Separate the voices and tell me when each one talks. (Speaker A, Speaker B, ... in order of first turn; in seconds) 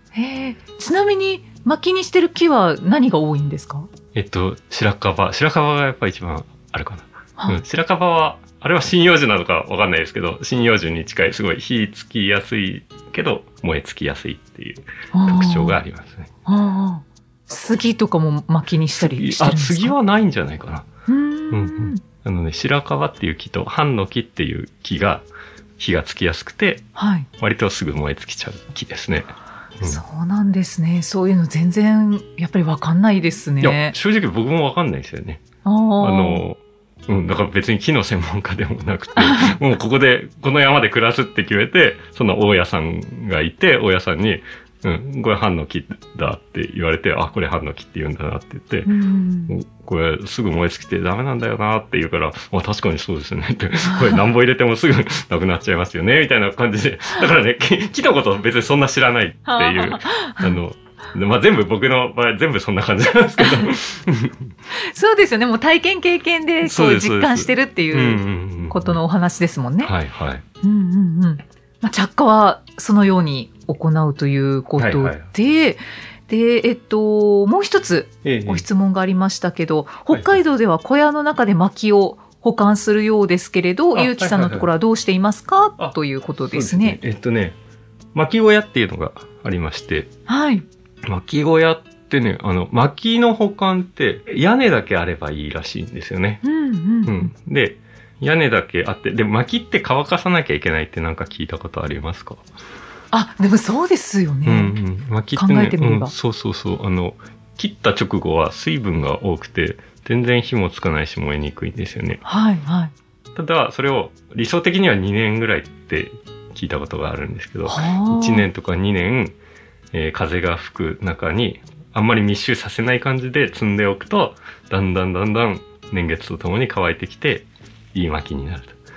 Speaker A: 0.1-3.9, 15.1-15.8, 16.5-19.9, 21.1-22.0, 27.0-27.3, 29.8-33.9, 35.6-36.4, 48.9-49.5, 59.5-60.6, 64.7-69.9, 70.6-87.0, 90.3-90.7, 96.4-97.3, 103.1-104.8, 105.3-106.1, 112.2-112.9, 117.7-118.5
Speaker B: 4.1-16.3, 19.0-20.9, 21.5-25.3, 25.8-26.9, 27.4-30.0, 33.6-35.4, 36.0-48.9, 49.5-64.5, 66.6-69.0, 69.8-70.4, 74.8-75.3, 78.2-78.7, 80.1-80.4, 84.0-84.7, 86.5-87.6, 88.1-90.1, 91.0-96.4, 97.0-102.4, 104.5-112.2, 113.3-119.3, 119.9-128.8